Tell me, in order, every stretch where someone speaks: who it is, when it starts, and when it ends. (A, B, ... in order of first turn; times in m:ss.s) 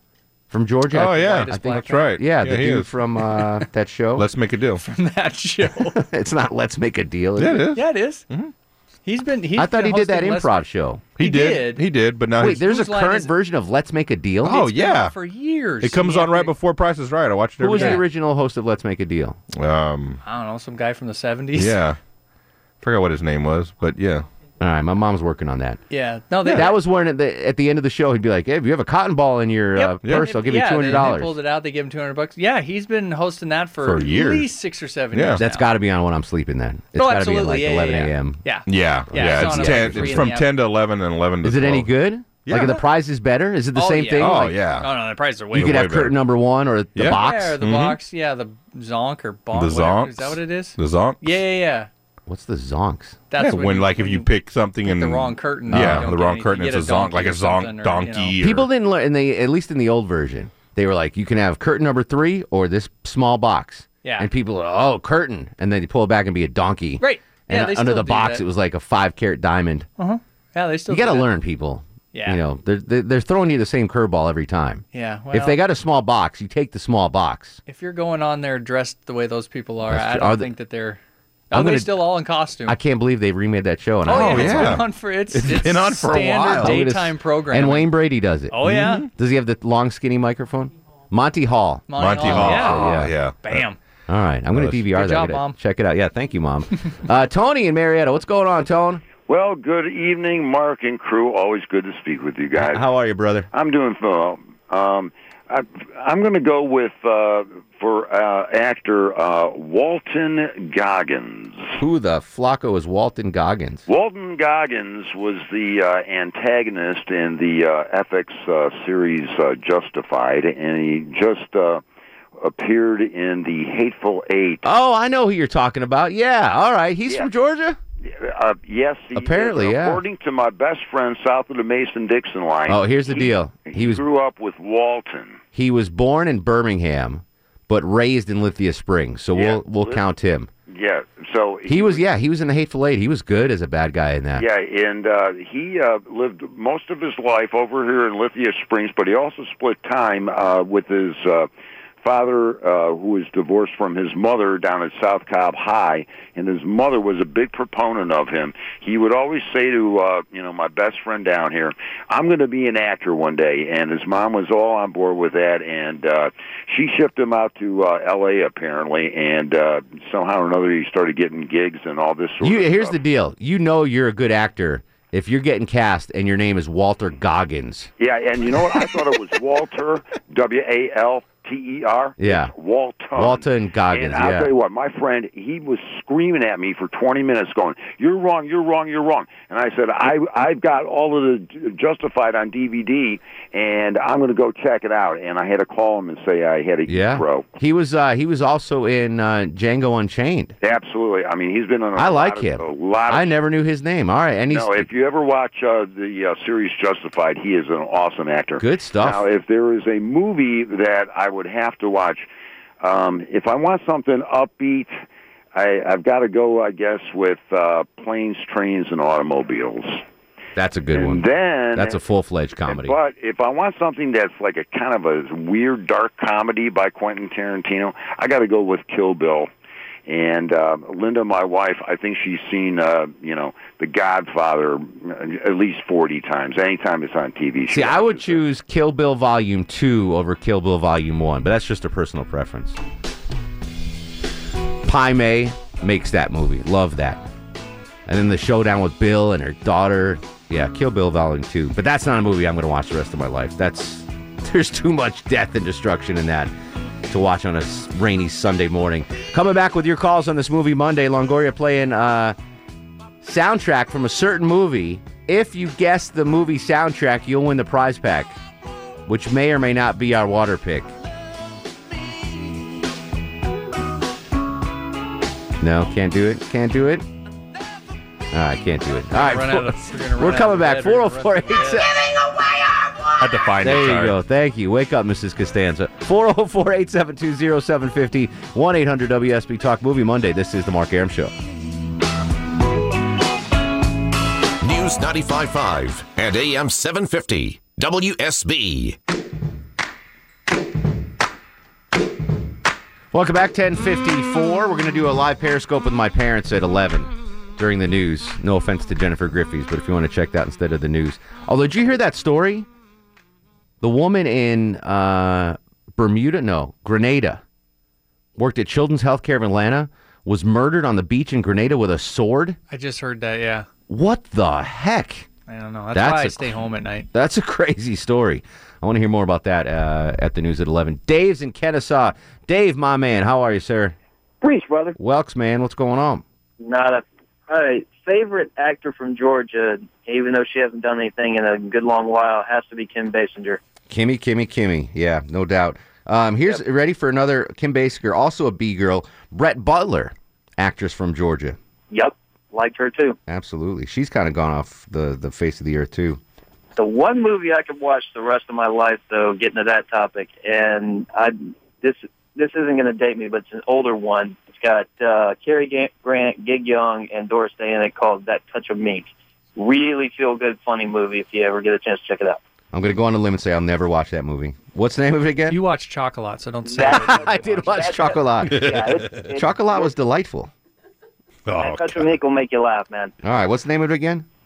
0:00.5-0:04.3 A
0:00.9-0:03.4 B
0:01.1-0:02.1 C
0:04.2-0:04.8 B
0:04.8-0:06.0 C
0:05.8-0:07.6 A
0:07.4-0:08.5 B
0:07.7-0:08.2 C
0:09.0-0:10.6 C
0:09.6-0:11.1 A
0:11.2-0:11.8 C
0:11.2-0:12.6 B
0:12.4-0:14.7 A
0:12.4-0:13.3 C
0:14.4-0:15.1 B
0:14.4-0:16.5 C
0:15.8-0:18.0 B
0:17.6-0:19.4 A
0:17.7-0:18.0 C
0:19.5-0:20.2 B
0:20.2-0:21.8 C
0:21.6-0:22.0 B
0:22.8-0:24.3 B
0:24.6-0:25.8 A
0:25.9-0:26.8 C
0:26.5-0:31.3 A
0:29.8-0:35.7 C
0:33.8-0:34.5 B
0:35.1-0:35.4 B
0:35.4-0:38.4 A
0:37.0-0:40.5 C
0:38.7-0:41.9 B
0:39.1-0:40.3 A
0:41.4-0:44.6 A
0:42.4-0:42.8 B
0:43.8-0:45.9 C
0:44.2-0:44.9 B
0:45.5-0:46.2 B
0:45.5-0:47.6 A
0:47.0-0:48.0 B
0:47.0-0:51.9 C
0:49.5-0:51.4 B
0:52.3-0:53.2 A
0:53.3-0:54.3 C
0:53.4-0:58.7 B
0:54.8-0:58.4 C
0:55.7-0:56.1 A
0:58.4-1:09.9 A
1:04.0-1:04.3 C
1:07.0-1:08.4 C
1:10.0-1:11.3 C
1:10.9-1:17.6 A
1:12.1-1:12.4 C
1:14.9-1:15.6 C
1:17.7-1:21.0 C
1:19.9-1:20.5 A
1:21.5-1:22.0 A
1:21.5-1:22.8 C
1:22.7-1:24.8 A
1:24.1-1:27.9 C
1:24.1-1:26.8 B
1:25.6-1:33.2 A
1:28.5-1:29.1 C
1:28.6-1:29.1 B
1:31.9-1:33.8 C
1:32.0-1:33.6 B
1:34.1-1:39.0 A
1:34.5-1:34.8 B
1:34.9-1:35.6 C
1:39.3-1:42.8 D
1:42.6-1:43.5 A
1:43.5-1:51.7 D
1:51.8-1:53.9 A
1:53.9-2:01.8 D
2:02.4-2:04.6 D
2:04.6-2:07.8 A
2:08.0-2:15.4 D
2:09.2-2:10.0 A
2:12.7-2:14.0 A
2:15.5-2:20.5 A
2:19.3-2:20.0 D
2:20.7-2:22.0 D
2:21.7-2:24.4 A
2:24.4-2:31.5 D
2:32.0-2:53.0 D
2:52.4-2:57.9 A
2:58.0-3:17.5 D
3:02.2-3:02.5 A
3:03.2-3:04.5 A
3:16.9-3:20.6 A
3:20.6-3:23.3 D
3:22.0-3:24.9 A
3:24.5-3:32.3 D
3:28.6-3:29.2 A
3:32.8-3:35.0 D
3:35.6-3:40.0 D
3:40.6-3:43.0 A
3:40.9-3:42.0 D
3:42.7-3:49.5 D
3:50.1-3:58.4 D
3:57.7-4:02.8 A
4:04.9-4:07.3 A
4:08.1-4:16.5 A
4:17.1-4:22.4 A
4:23.2-4:28.4 A
4:29.1-4:30.9 A
4:35.6-4:37.1 A
4:38.3-4:42.3 A
4:39.1-4:41.9 C
4:43.2-4:44.2 B
4:43.6-4:51.3 A
4:54.6-4:59.0 E
5:03.1-5:12.7 A
5:13.8-5:17.4 A
5:18.4-5:22.6 A
5:22.7-5:23.7 C
5:23.9-5:25.3 A
5:25.5-5:27.1 C
5:25.9-5:26.6 A
5:27.1-5:34.0 A
5:34.4-5:35.0 F
5:35.0-5:36.2 A
5:36.6-5:43.6 F
5:43.9-5:51.6 A
5:51.9-5:53.2 F
5:53.3-5:56.2 A
5:56.8-6:12.4 F
6:12.7-6:15.6 A
6:15.5-6:17.6 C
6:16.7-6:19.9 F
6:16.8-6:20.5 A
6:18.5-6:18.8 B
6:21.5-6:22.1 B
6:21.6-6:23.2 F
6:23.2-6:24.3 A